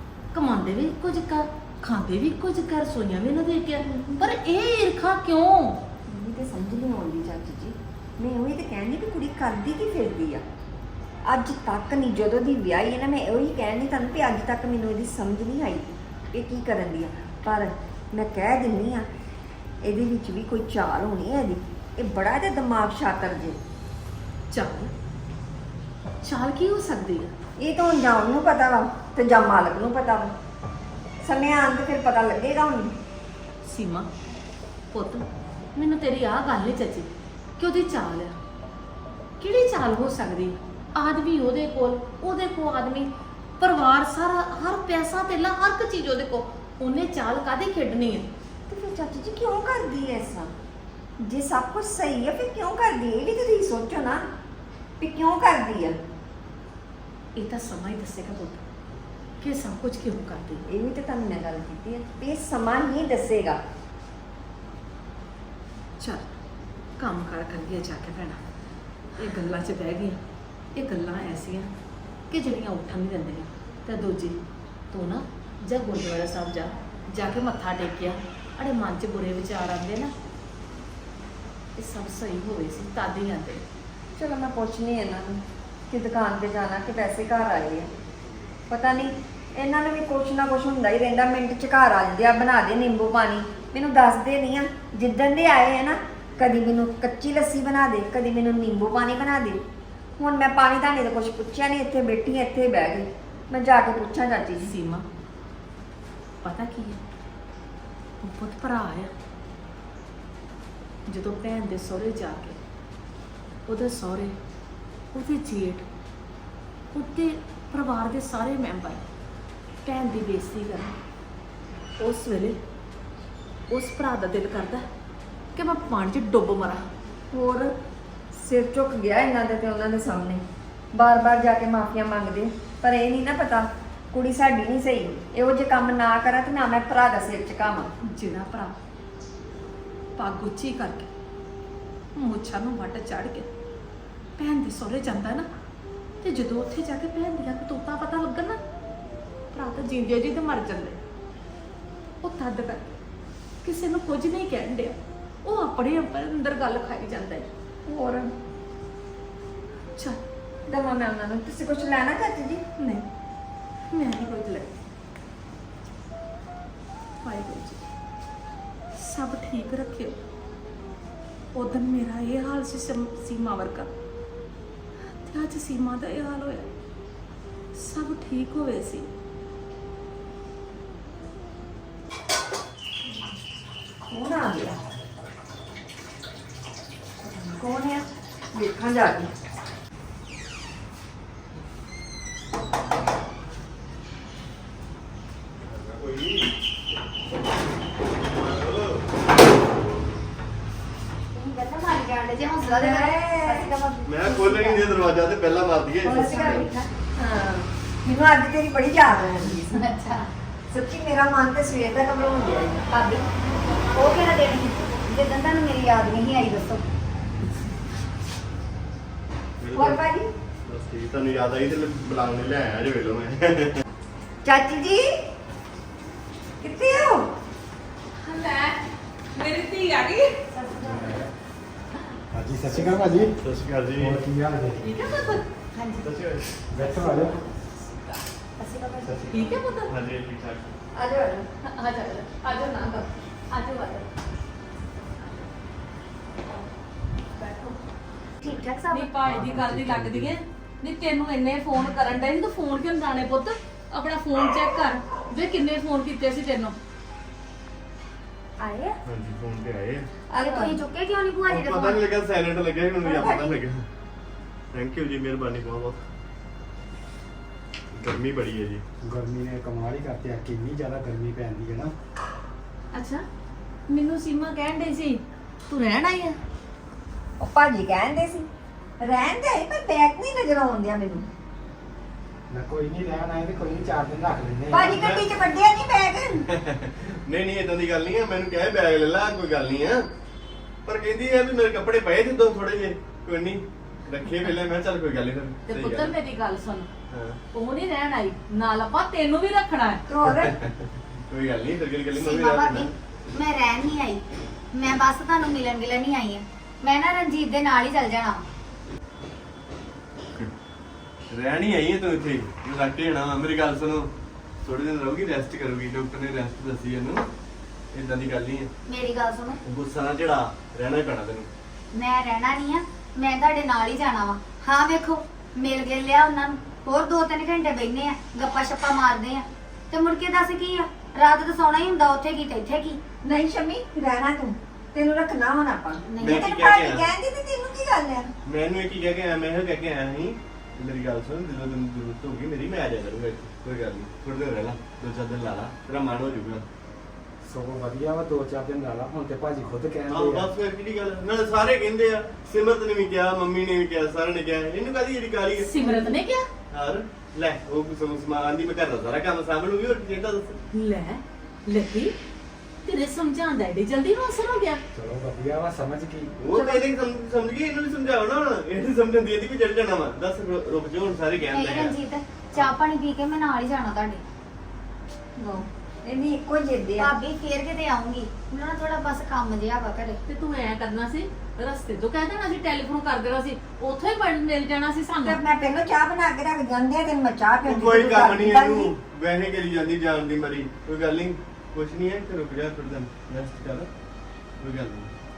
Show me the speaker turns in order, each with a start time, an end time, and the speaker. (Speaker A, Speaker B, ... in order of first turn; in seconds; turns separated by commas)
Speaker A: 0.3-5.8, Speaker B: 3.9-4.3, Speaker B: 6.1-10.4, Speaker B: 11.3-19.1, Speaker B: 19.8-23.6, Speaker A: 24.5-24.9, Speaker A: 26.2-27.3, Speaker B: 27.6-30.4, Speaker B: 31.2-33.0, Speaker A: 33.6-34.1, Speaker A: 34.9-38.4, Speaker A: 39.4-48.3, Speaker B: 48.7-50.5, Speaker B: 51.2-54.3, Speaker B: 55.0-56.0, Speaker A: 57.4-58.6, Speaker A: 59.4-60.6, Speaker B: 60.7-63.6, Speaker A: 66.0-66.3, Speaker A: 67.0-68.4, Speaker A: 69.2-70.2, Speaker A: 70.8-71.7, Speaker A: 72.3-80.1, Speaker A: 81.8-83.6, Speaker B: 84.2-87.9, Speaker B: 88.7-99.6, Speaker B: 100.2-104.7, Speaker A: 104.6-105.1, Speaker A: 106.4-107.0, Speaker A: 108.2-109.1, Speaker A: 111.1-112.6, Speaker A: 113.7-114.3, Speaker A: 115.1-115.9, Speaker A: 116.9-119.0, Speaker A: 119.8-121.0, Speaker A: 122.0-122.6, Speaker A: 123.7-124.8, Speaker A: 125.5-126.9, Speaker B: 127.3-127.7, Speaker B: 128.3-137.9, Speaker A: 138.0-138.8, Speaker A: 140.2-141.1, Speaker A: 142.2-143.5, Speaker A: 144.4-145.5, Speaker A: 146.2-148.6, Speaker A: 149.5-151.0, Speaker A: 152.2-152.9, Speaker A: 153.6-157.5, Speaker B: 157.9-158.3, Speaker B: 160.7-162.7, Speaker A: 162.8-163.1, Speaker A: 163.9-164.8, Speaker A: 167.2-167.8, Speaker A: 168.9-170.2, Speaker A: 171.6-173.9, Speaker A: 175.2-176.7, Speaker A: 177.7-179.1, Speaker B: 184.1-184.8, Speaker B: 187.2-189.3, Speaker C: 195.7-196.5, Speaker C: 198.3-199.1, Speaker D: 201.3-204.7, Speaker B: 202.7-203.7, Speaker C: 204.1-206.6, Speaker B: 204.3-204.8, Speaker D: 206.0-206.9, Speaker B: 206.0-209.8, Speaker D: 209.2-210.3, Speaker B: 210.7-212.9, Speaker D: 212.9-213.2, Speaker D: 213.9-216.8, Speaker C: 219.6-220.0, Speaker B: 219.7-220.3, Speaker C: 220.7-223.8, Speaker B: 224.4-225.2, Speaker B: 226.6-227.3, Speaker A: 228.2-230.4, Speaker D: 230.5-231.2, Speaker E: 230.9-231.3, Speaker E: 232.3-233.4, Speaker C: 233.4-234.2, Speaker E: 234.0-234.8, Speaker A: 234.8-235.4, Speaker D: 235.7-236.1, Speaker C: 236.0-236.6, Speaker E: 236.7-237.4, Speaker A: 237.8-238.2, Speaker D: 238.6-239.3, Speaker E: 239.0-239.5, Speaker A: 239.3-240.0, Speaker C: 239.9-240.7, Speaker B: 240.9-241.5, Speaker A: 241.6-244.1, Speaker A: 245.2-245.5, Speaker A: 247.3-247.8, Speaker D: 248.4-249.1, Speaker A: 248.9-256.8, Speaker C: 249.3-250.2, Speaker D: 258.6-259.0, Speaker C: 259.1-260.1, Speaker B: 260.3-260.8, Speaker D: 260.4-262.1, Speaker C: 261.5-263.9, Speaker B: 263.0-263.6, Speaker C: 264.7-266.0, Speaker C: 267.9-268.8, Speaker E: 269.0-271.9, Speaker A: 272.9-273.2, Speaker A: 273.9-276.4, Speaker B: 277.4-278.5, Speaker B: 279.0-281.3, Speaker E: 282.5-285.2, Speaker B: 284.7-286.5, Speaker C: 285.0-285.2, Speaker C: 286.5-290.0, Speaker C: 290.9-296.1, Speaker A: 295.7-296.9, Speaker C: 297.1-297.4, Speaker A: 297.5-300.0, Speaker B: 300.1-300.6, Speaker C: 300.4-300.7, Speaker C: 301.3-302.9, Speaker D: 302.2-304.2, Speaker D: 304.7-308.4, Speaker C: 311.3-314.1, Speaker C: 314.6-317.2, Speaker C: 317.9-318.7, Speaker D: 318.9-319.6, Speaker C: 319.7-321.5, Speaker D: 321.9-333.0, Speaker B: 333.2-338.3, Speaker D: 336.1-336.5, Speaker C: 336.2-337.1, Speaker C: 338.5-346.6, Speaker E: 347.4-350.5, Speaker C: 350.1-355.7, Speaker A: 355.6-356.5, Speaker C: 356.7-360.6, Speaker A: 360.7-362.1, Speaker A: 362.9-364.8, Speaker E: 364.9-366.4, Speaker C: 366.4-371.9, Speaker B: 366.5-366.9, Speaker D: 371.5-374.2, Speaker B: 375.4-377.1, Speaker D: 377.0-380.2, Speaker A: 380.3-385.4, Speaker B: 385.2-388.9, Speaker C: 387.7-393.9, Speaker C: 394.6-395.1